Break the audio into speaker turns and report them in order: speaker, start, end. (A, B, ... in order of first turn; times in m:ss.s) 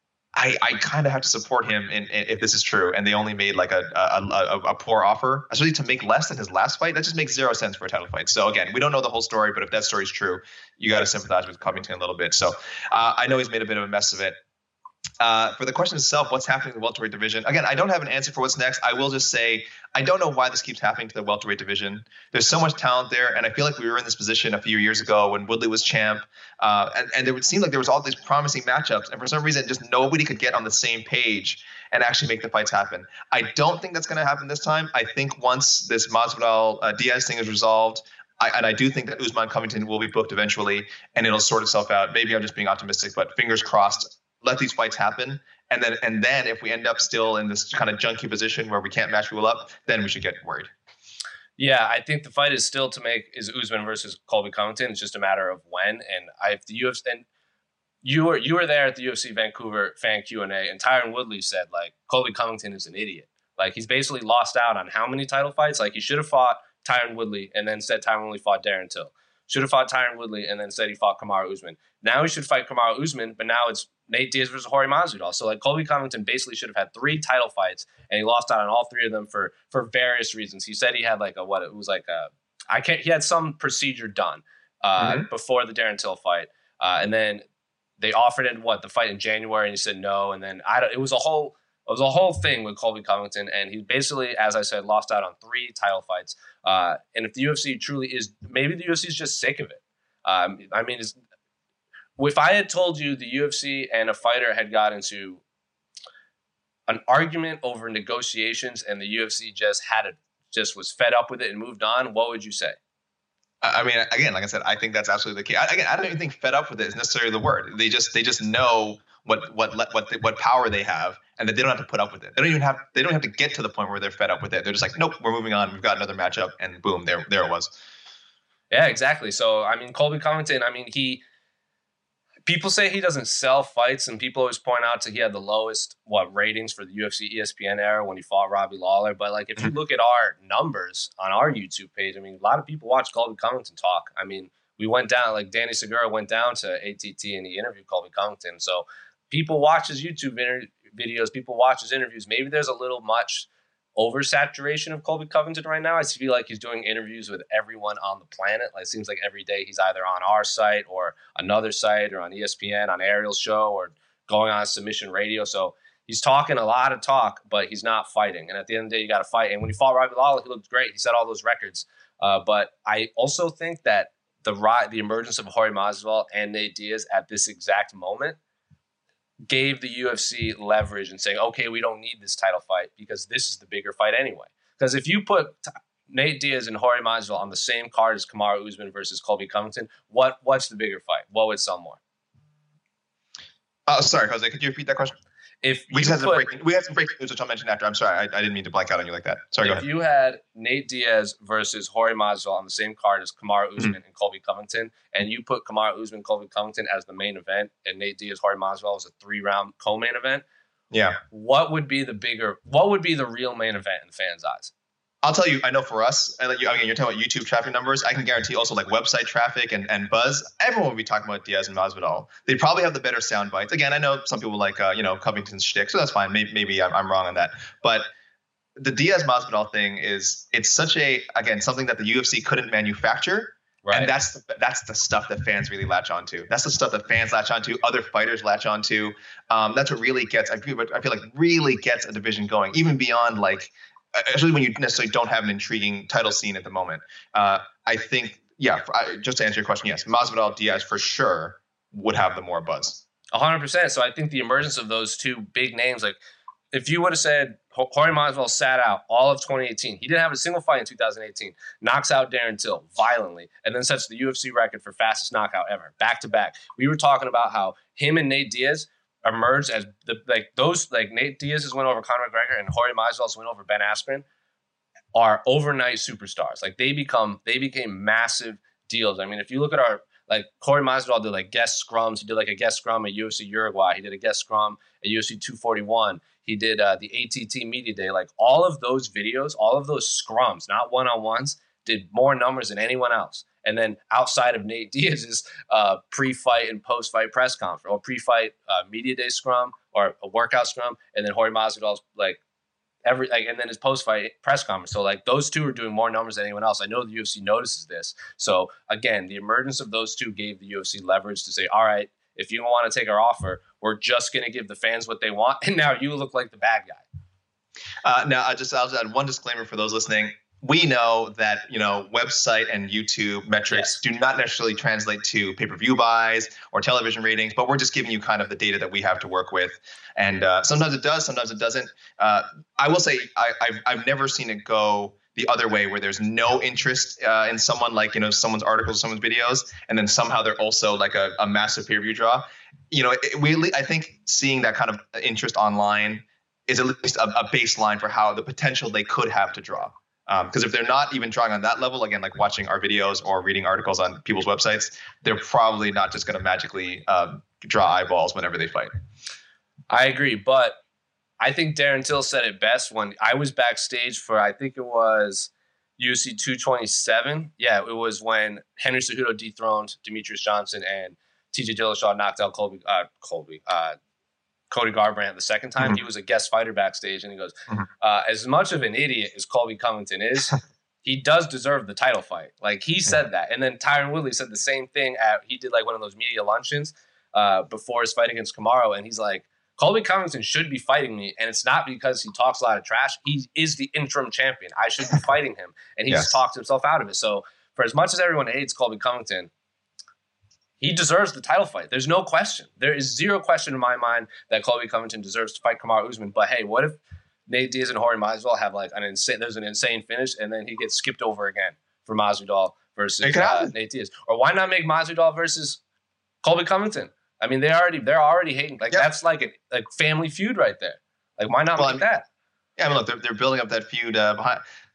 0:00.4-0:14.4 A
0:15.2-0:50.7 A
0:51.6-0:57.2 B
0:58.0-1:27.4 B
1:25.0-1:25.2 A
1:28.0-1:41.2 B
1:42.2-1:45.4 B
1:46.9-1:52.8 B
1:53.6-2:07.7 A
2:08.7-2:11.2 B
2:12.5-2:58.4 B
2:59.5-3:12.0 B
3:13.9-3:15.2 A
3:15.6-3:16.4 B
3:15.9-3:19.8 A
3:19.6-3:30.4 B
3:30.9-3:31.2 A
3:31.3-3:34.7 B
3:35.2-3:48.1 A
3:48.8-4:13.0 A
3:53.8-3:54.1 B
4:13.3-4:16.2 B
4:16.7-4:34.2 B
4:35.1-5:02.4 B
5:03.0-5:17.0 B
5:18.0-5:58.9 A
5:59.9-6:00.8 B
6:01.4-6:14.0 B
6:14.7-6:39.5 B
6:36.1-6:36.4 A
6:40.8-6:55.8 B
6:53.2-6:53.7 A
6:56.4-7:02.2 B
7:01.8-7:02.0 A
7:02.8-7:04.6 A